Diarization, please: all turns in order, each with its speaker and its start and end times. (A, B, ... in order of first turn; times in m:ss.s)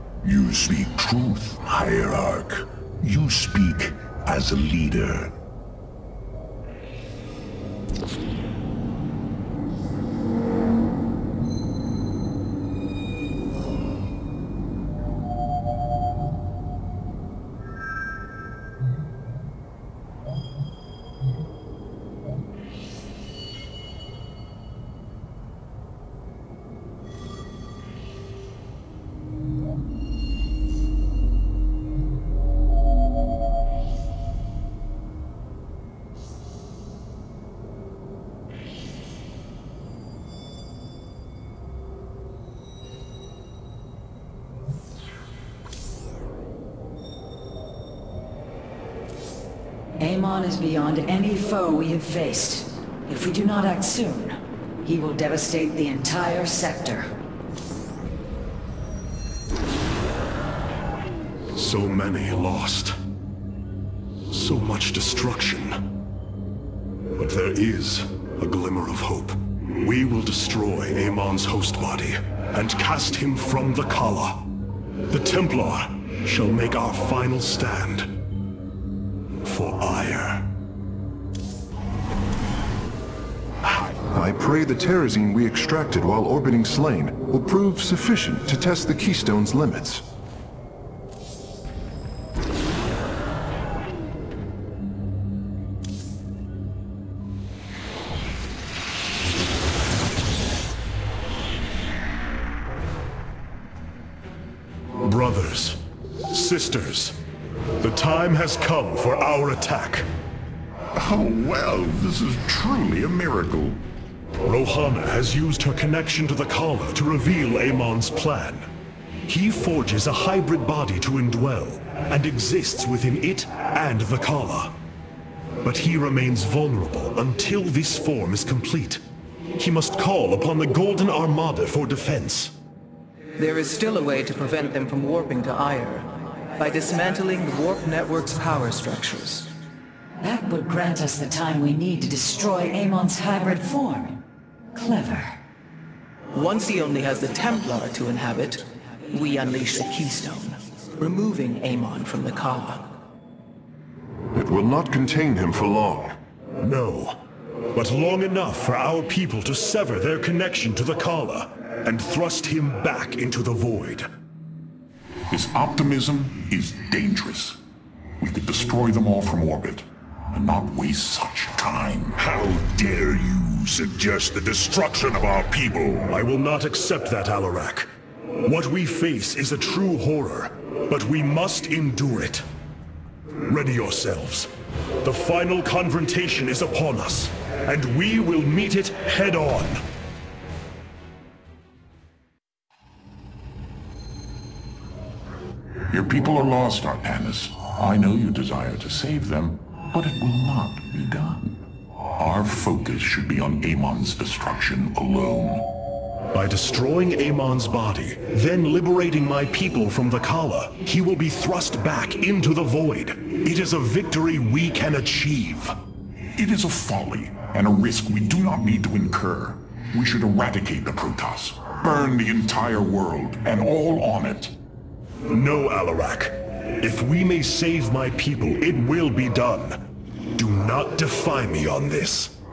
0:00.2-0:05.3 A
0:50.0-0:57.1 B
1:01.6-1:03.0 C
1:04.3-1:05.8 C
1:07.2-1:14.5 C
1:15.1-1:18.1 C
1:19.4-1:20.5 C
1:24.1-1:30.1 D
1:45.0-1:47.2 C
1:47.8-1:50.1 C
1:50.9-1:53.8 E
1:54.4-1:58.7 C
1:59.3-2:04.8 C
2:05.6-2:09.0 C
2:09.6-2:12.5 C
2:13.4-2:19.5 F
2:20.2-2:24.2 B
2:24.7-2:25.4 B
2:26.3-2:33.0 F
2:34.3-2:36.2 D
2:36.6-2:37.2 C
2:37.7-2:44.1 C
2:45.3-2:47.6 E
2:48.2-2:52.2 E
2:52.2-2:56.2 A
2:56.1-2:57.9 C
2:58.4-3:02.4 C
3:03.4-3:04.5 C
3:05.0-3:09.8 C
3:15.9-3:21.6 E
3:22.2-3:25.7 E
3:26.3-3:35.8 C
3:36.4-3:44.5 E
3:45.3-3:52.3 C